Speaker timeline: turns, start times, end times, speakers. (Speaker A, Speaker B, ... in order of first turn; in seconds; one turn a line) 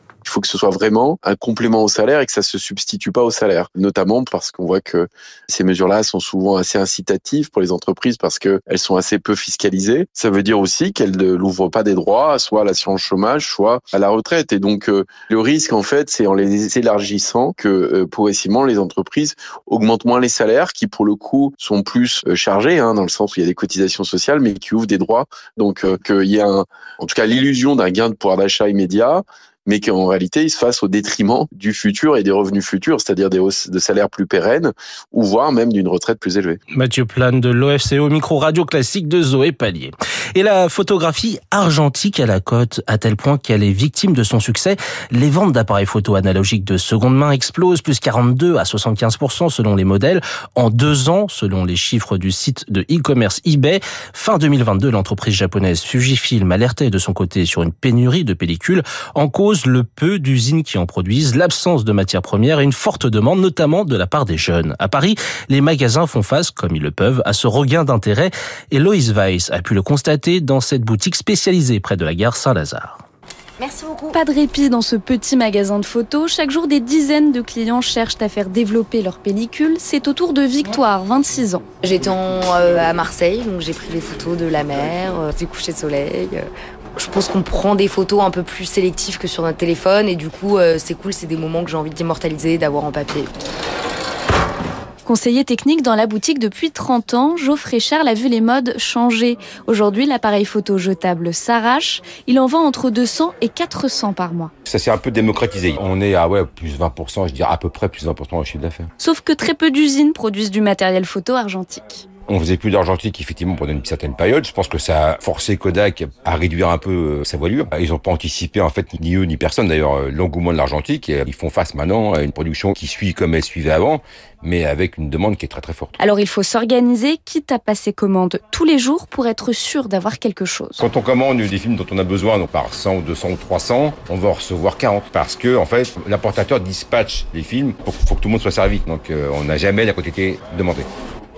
Speaker A: 0.2-36.6
Speaker B: 36.7-73.0
Speaker C: 73.6-74.1
Speaker D: 74.1-81.7
Speaker C: 81.8-93.4
Speaker D: 95.0-104.5
Speaker E: 104.7-108.9
Speaker D: 109.0-112.1
Speaker E: 112.3-125.9
Speaker D: 126.0-130.8
Speaker E: 130.8-140.9